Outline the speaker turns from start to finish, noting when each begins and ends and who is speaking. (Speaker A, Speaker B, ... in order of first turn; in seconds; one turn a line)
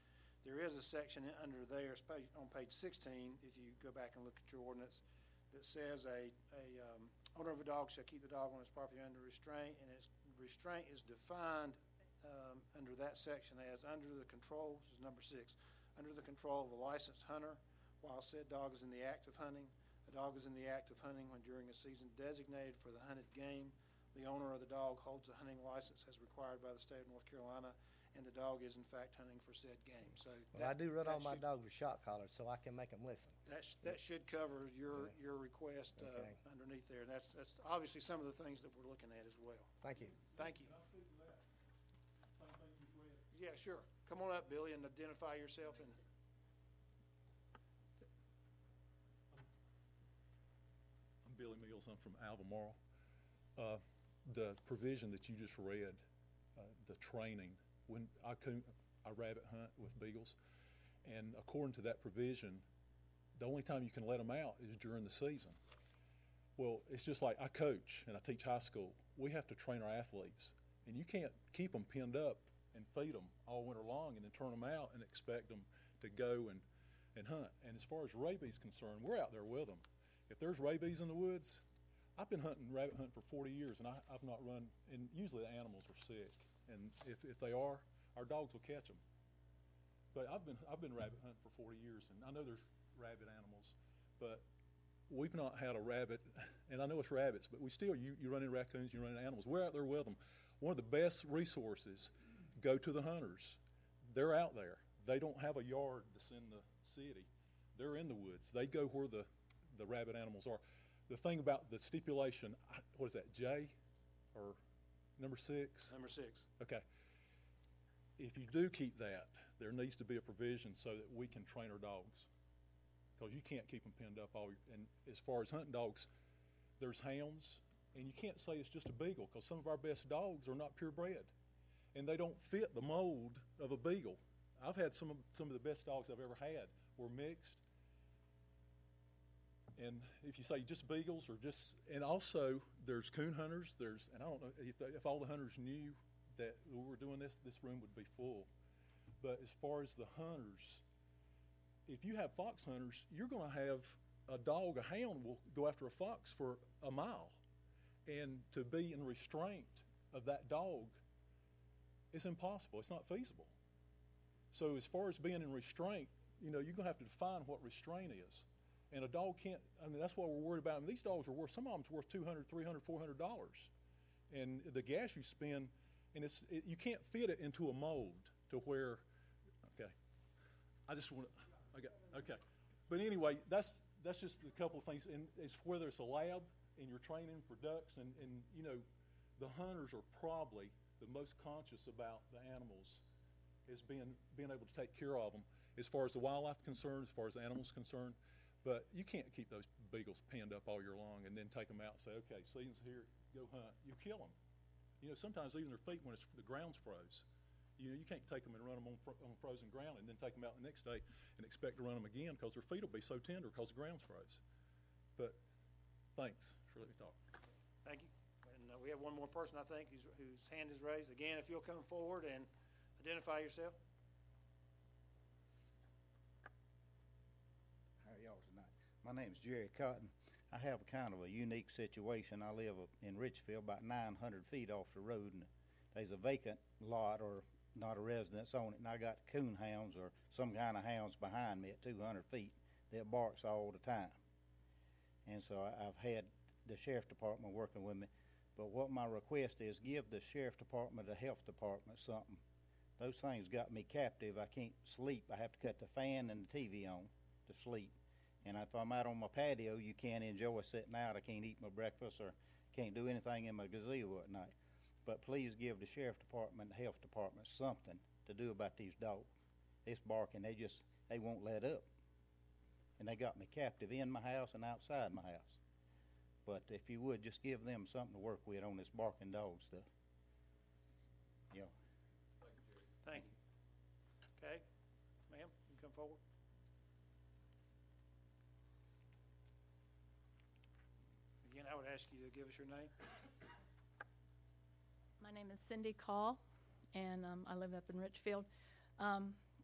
Speaker A: 0.4-31.4
Speaker B: 30.5-33.4
Speaker A: 33.5-39.7
Speaker B: 36.0-36.4
Speaker B: 39.8-40.2
Speaker C: 40.2-41.4
Speaker A: 40.4-40.7
Speaker C: 42.3-43.3
Speaker A: 43.3-46.0
Speaker C: 51.2-52.8
Speaker C: 53.6-56.0
Speaker C: 56.6-60.4
Speaker C: 61.0-62.6
Speaker C: 63.4-65.6
Speaker C: 66.6-81.6
Speaker C: 82.2-89.0
Speaker C: 90.1-94.5
Speaker C: 95.1-113.8
Speaker C: 115.2-116.0
Speaker A: 115.9-116.5
Speaker C: 116.6-116.8
Speaker C: 118.2-122.3
Speaker C: 123.2-126.1
Speaker C: 126.8-131.3
Speaker C: 131.9-137.6
Speaker C: 139.8-148.5
Speaker C: 149.2-150.8
Speaker C: 151.9-157.4
Speaker C: 158.1-161.0
Speaker C: 162.1-163.5
Speaker C: 164.5-173.7
Speaker C: 174.3-179.0
Speaker C: 179.6-179.9
Speaker C: 180.9-188.9
Speaker C: 189.4-193.0
Speaker C: 193.7-204.3
Speaker C: 205.0-207.2
Speaker C: 207.8-214.4
Speaker C: 216.2-217.2
Speaker A: 217.8-223.8
Speaker D: 228.0-244.2
Speaker D: 245.3-252.4
Speaker D: 253.0-264.5
Speaker D: 265.1-269.3
Speaker D: 269.9-271.9
Speaker D: 273.0-275.6
Speaker D: 276.5-279.9
Speaker A: 283.0-283.3
Speaker A: 284.4-284.6
Speaker A: 285.3-286.2
Speaker A: 291.4-292.9
Speaker E: 295.2-299.4